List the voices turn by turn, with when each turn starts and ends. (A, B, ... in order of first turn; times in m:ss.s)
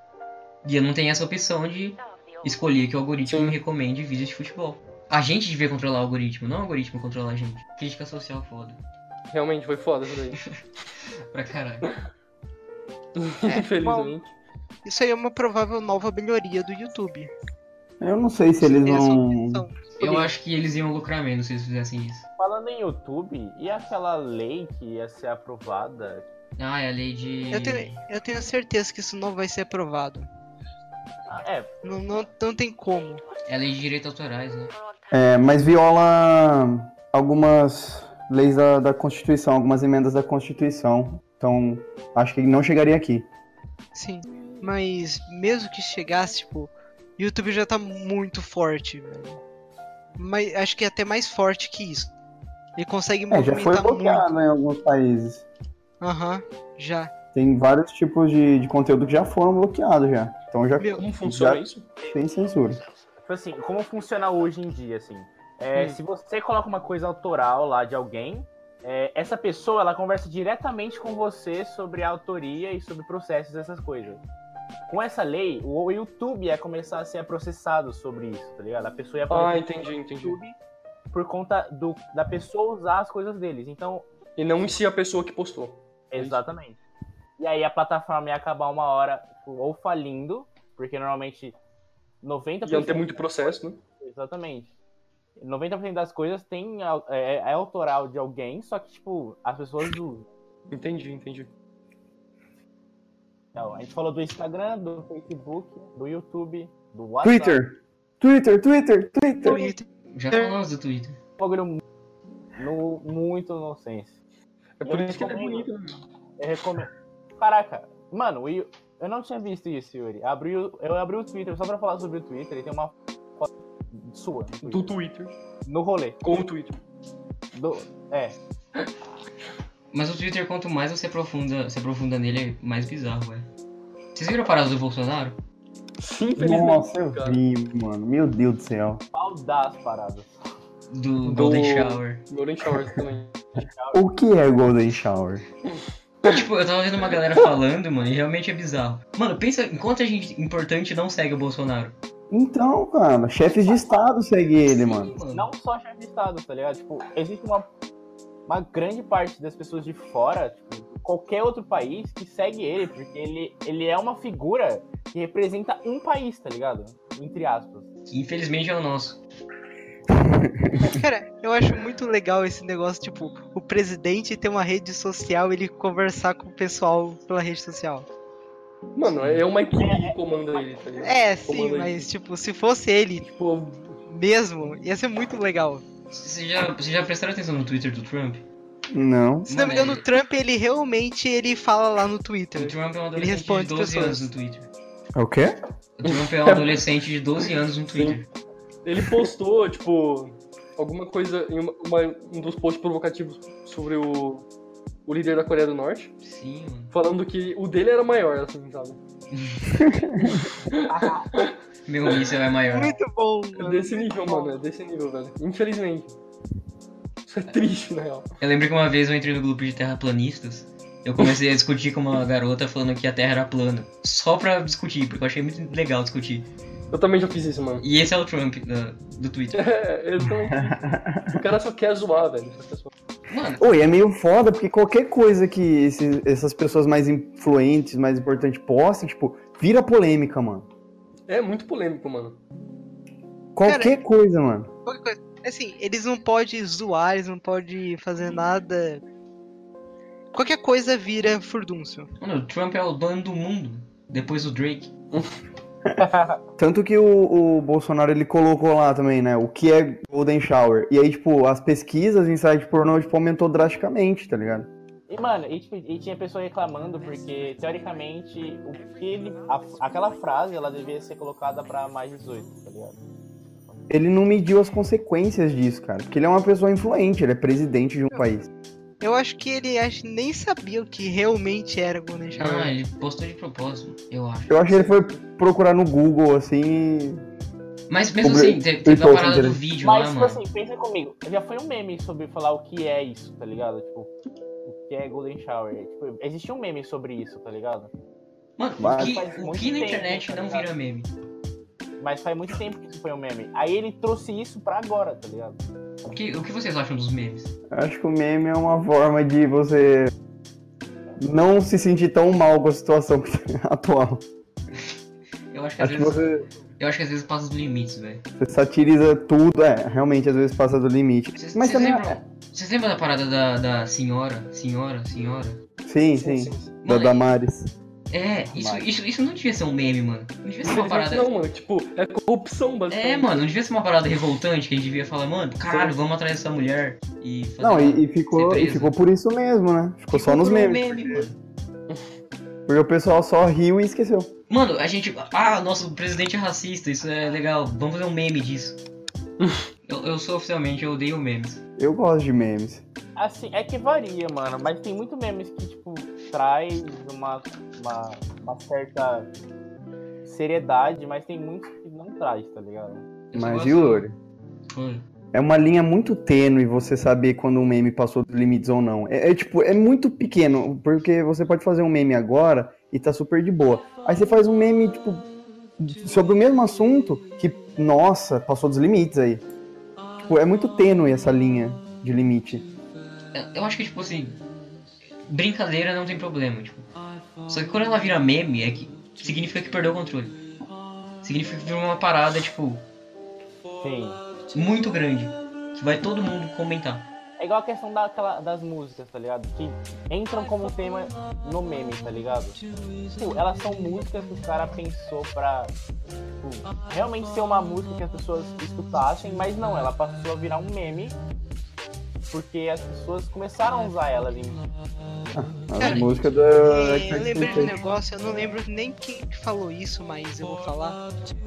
0:00.6-0:08.8 A
0:03.3-0:03.6 B
0:09.3-0:10.4 B
0:11.3-0:11.9 A
0:13.2-0:14.3 B
0:13.5-0:14.2 C
0:14.8-0:17.3 C
0:18.0-0:19.6 D
0:18.6-0:20.3 C
0:20.0-0:22.3 A
0:22.4-0:26.3 E
0:26.6-0:28.0 A
0:27.5-0:30.3 C
0:31.3-0:31.7 E
0:31.8-0:33.2 C
0:33.4-0:34.7 A
0:35.1-0:43.3 D
0:43.9-0:49.4 C
0:50.2-0:52.1 C
0:52.8-0:54.3 C
0:53.3-0:55.4 D
0:56.0-0:57.1 C
0:57.3-1:02.8 D
1:00.8-1:01.0 C
1:01.0-1:01.9 B
1:03.2-1:14.2 E
1:05.7-1:06.0 B
1:14.9-1:20.6 E
1:19.3-1:20.4 B
1:21.1-1:24.0 E
1:24.4-1:26.4 B
1:26.1-1:26.8 E
1:27.4-1:31.6 E
1:32.2-1:34.7 E
1:32.6-1:33.8 B
1:35.4-1:40.3 E
1:40.7-1:41.5 B
1:43.5-1:47.6 E
1:47.2-1:49.7 D
1:49.4-1:50.6 C
1:50.1-1:51.2 A
1:51.4-1:51.8 E
1:52.6-1:54.2 E
1:54.8-1:56.0 B
1:54.8-1:55.7 E
1:56.4-2:04.9 E
2:04.6-2:05.3 B
2:05.6-2:06.2 E
2:06.2-2:06.8 B
2:07.5-2:08.4 E
2:09.9-2:13.4 A
2:14.1-2:15.4 A
2:16.0-2:17.4 B
2:16.4-2:19.0 D
2:19.1-2:20.3 E
2:20.9-2:22.2 A
2:21.2-2:23.7 B
2:23.6-2:24.0 E
2:23.9-2:25.4 D
2:25.7-2:26.4 B
2:26.2-2:32.0 A
2:32.3-2:35.1 D
2:34.6-2:35.5 A
2:35.3-2:37.7 E
2:38.5-2:47.9 E
2:48.1-2:49.2 A
2:50.2-2:51.0 D
2:50.8-2:58.1 C
2:58.9-3:02.1 B
2:59.1-2:59.4 A
2:59.8-3:00.1 E
3:01.0-3:03.3 C
3:03.2-3:04.0 B
3:04.1-3:05.8 C
3:06.1-3:08.4 A
3:08.9-3:09.5 D
3:09.5-3:10.0 A
3:09.5-3:14.3 C
3:12.6-3:14.7 A
3:15.2-3:15.5 D
3:16.0-3:18.3 A
3:16.0-3:16.8 B
3:17.9-3:18.2 B
3:18.8-3:24.4 B
3:25.0-3:26.1 B
3:26.2-3:26.9 A
3:26.9-3:29.0 B
3:29.3-3:30.1 A
3:29.8-3:30.4 D
3:30.2-3:31.5 B
3:30.9-3:31.4 E
3:31.8-3:33.0 A
3:32.6-3:34.6 C
3:33.6-3:36.1 B
3:37.2-3:38.3 B
3:38.4-3:46.5 A
3:46.9-3:47.8 B
3:47.8-3:49.6 A
3:49.5-3:52.9 B
3:50.8-3:51.4 D
3:53.3-3:53.6 A
3:53.6-4:00.7 D
4:01.3-4:02.4 B
4:03.5-4:04.7 D
4:03.6-4:04.0 C
4:04.8-4:09.0 C
4:10.3-4:12.1 C
4:12.2-4:14.9 A
4:16.0-4:16.4 E
4:16.6-4:24.7 D
4:25.1-4:33.0 E
4:33.9-4:38.5 D
4:39.0-4:42.7 C
4:42.4-4:44.9 A
4:44.5-4:47.2 D
4:47.9-4:50.4 A
4:48.2-4:49.6 D
4:49.8-4:54.1 E
4:54.6-4:57.9 E
4:58.6-5:01.1 A
4:58.8-4:59.2 D
4:58.9-5:00.7 E
5:02.0-5:05.6 E
5:06.0-5:07.5 A
5:07.7-5:10.1 D
5:11.2-5:14.2 D
5:15.5-5:18.2 A
5:15.8-5:16.4 D
5:18.4-5:22.2 D
5:21.4-5:25.6 A
5:25.8-5:27.7 D
5:26.1-5:26.7 B
5:26.8-5:27.3 A
5:28.1-5:31.3 A
5:28.5-5:28.8 D
5:30.6-5:33.5 B
5:32.9-5:38.9 A
5:37.6-5:41.3 D
5:40.1-5:41.4 A
5:41.9-5:42.1 B
5:42.7-5:44.3 D
5:44.5-5:48.8 A
5:49.4-5:49.6 B
5:49.8-5:51.6 A
5:51.8-5:52.8 D
5:53.2-5:59.3 E
6:00.2-6:03.0 E
6:03.3-6:04.0 A
6:03.3-6:04.2 D
6:04.7-6:05.0 A
6:05.3-6:15.2 D
6:15.8-6:19.4 D
6:20.2-6:22.6 D
6:23.3-6:24.4 A
6:25.3-6:26.9 A
6:27.5-6:30.4 A
6:31.2-6:32.8 A
6:33.8-6:34.2 E
6:34.5-6:37.1 A
6:37.4-6:42.6 E
6:43.2-6:45.7 E
6:46.4-6:51.2 E
6:52.3-6:54.7 E
6:55.3-6:57.7 D
6:55.8-6:56.5 A
6:55.8-6:56.1 C
6:56.6-7:01.0 C